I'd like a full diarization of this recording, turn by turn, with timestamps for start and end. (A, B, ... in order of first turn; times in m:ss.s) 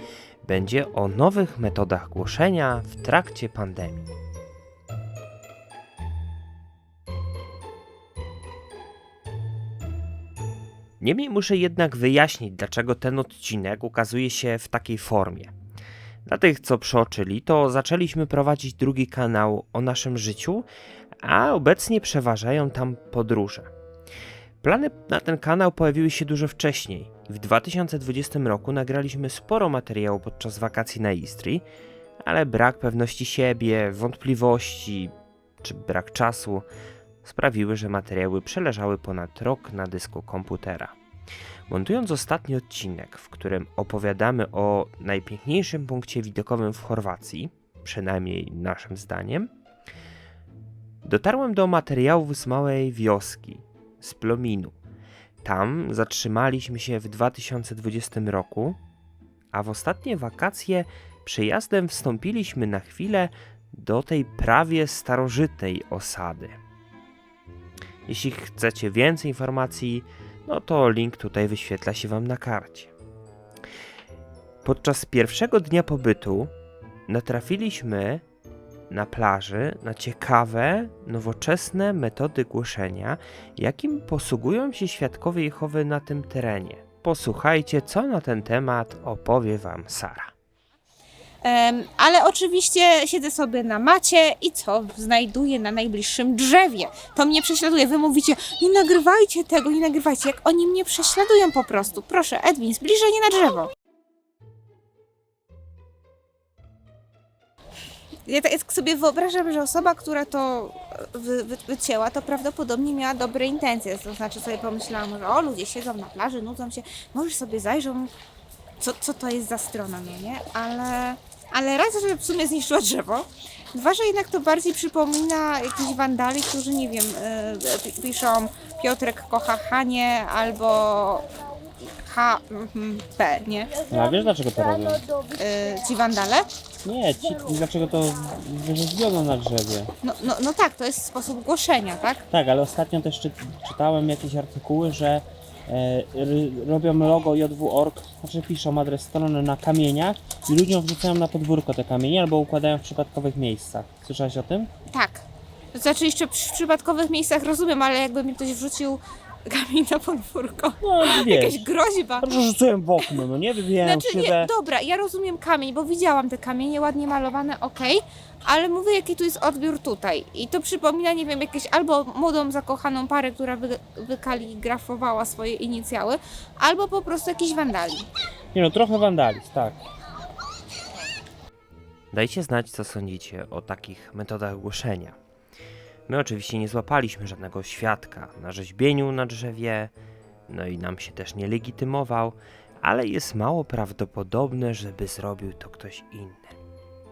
0:00.4-0:04.1 A
0:11.0-0:15.5 A
0:16.2-0:20.7 A
0:21.2-0:23.7 A
0:24.6-0:31.6 A
0:32.2-0:36.7 A
0:37.2-0:41.0 A
0:41.7-0:49.5 A
0:51.0-0:54.8 A
0:55.4-0:58.8 A
0:59.5-1:06.6 A
1:08.1-1:12.9 A
1:14.6-1:16.5 A
1:17.1-1:18.2 A
1:18.9-1:30.3 A
1:31.4-1:43.7 B
1:48.2-1:58.1 B
1:58.8-2:13.9 B
2:13.9-2:14.7 C
2:14.7-2:15.1 A
2:15.2-2:16.5 B
2:16.8-2:19.7 C
2:16.9-2:18.3 A
2:18.9-2:19.9 A
2:20.0-2:22.2 B
2:22.3-2:25.2 C
2:22.6-2:25.2 A
2:25.7-2:34.6 C
2:25.7-2:34.7 A
2:34.9-2:42.4 B
2:40.8-2:41.5 C
2:42.2-2:44.0 C
2:42.6-2:44.5 A
2:43.8-2:58.1 B
2:58.5-2:59.7 C
2:58.6-2:59.7 A
3:02.1-3:05.2 A
3:06.1-3:09.9 A
3:10.5-3:16.6 A